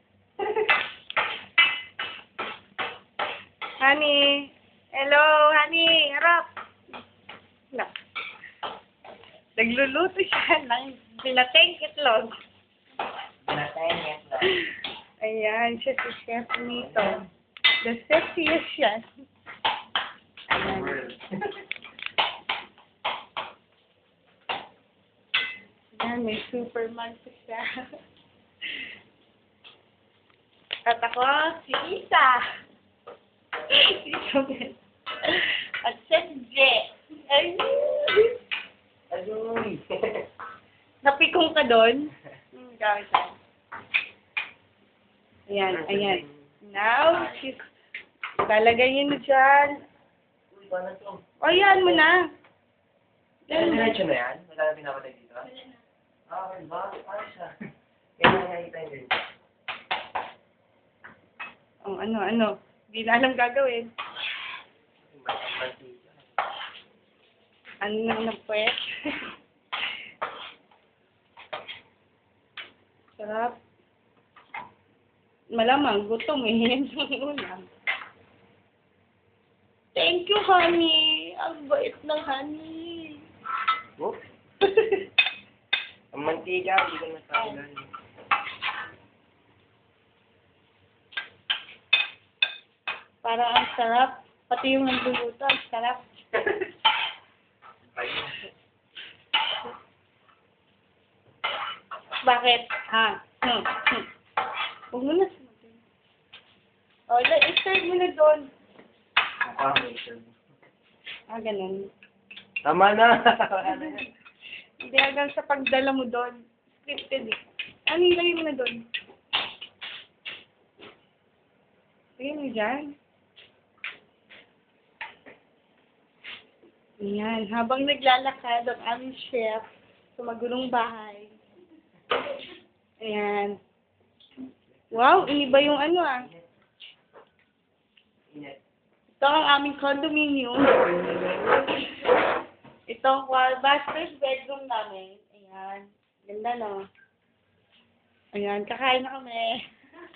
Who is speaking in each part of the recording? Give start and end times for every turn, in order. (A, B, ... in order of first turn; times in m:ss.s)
0:03.8-0:06.5 A
0:09.6-0:12.3 A
0:13.4-0:14.6 B
0:14.4-0:17.2 A
0:16.7-0:17.2 B
0:17.8-0:19.1 A
0:20.5-0:21.0 A
0:20.5-0:21.6 B
0:26.0-0:27.7 A
0:30.8-0:32.4 A
0:33.7-0:38.4 A
0:39.1-0:40.2 B
0:41.0-0:43.4 A
0:45.5-0:47.7 A
0:45.7-0:46.4 B
0:47.1-0:47.4 B
0:48.4-0:49.8 A
0:50.5-0:52.1 B
0:51.4-0:52.2 A
0:53.5-0:54.0 A
0:53.5-0:55.5 B
0:56.3-0:57.5 B
0:58.2-0:59.2 B
1:01.8-1:03.9 A
1:05.0-1:06.2 B
1:07.8-1:09.3 A
1:13.2-1:13.6 A
1:15.5-1:17.7 A
1:19.9-1:23.2 A
1:24.6-1:25.1 A
1:26.1-1:27.9 B
1:33.2-1:36.0 A
1:37.9-1:38.5 B
1:42.2-1:44.1 A
1:44.9-1:45.8 A
1:47.1-1:48.5 A
1:49.4-1:50.3 B
1:51.3-1:51.9 A
1:52.6-1:54.1 B
1:53.7-1:54.1 A
1:54.8-1:58.8 A
2:02.2-2:02.9 A
2:07.0-2:11.3 A
2:13.0-2:13.6 A
2:14.8-2:16.4 B
2:14.9-2:16.3 A
2:18.3-2:18.6 B
2:19.2-2:21.6 A
2:22.9-2:26.8 A
2:28.3-2:29.6 A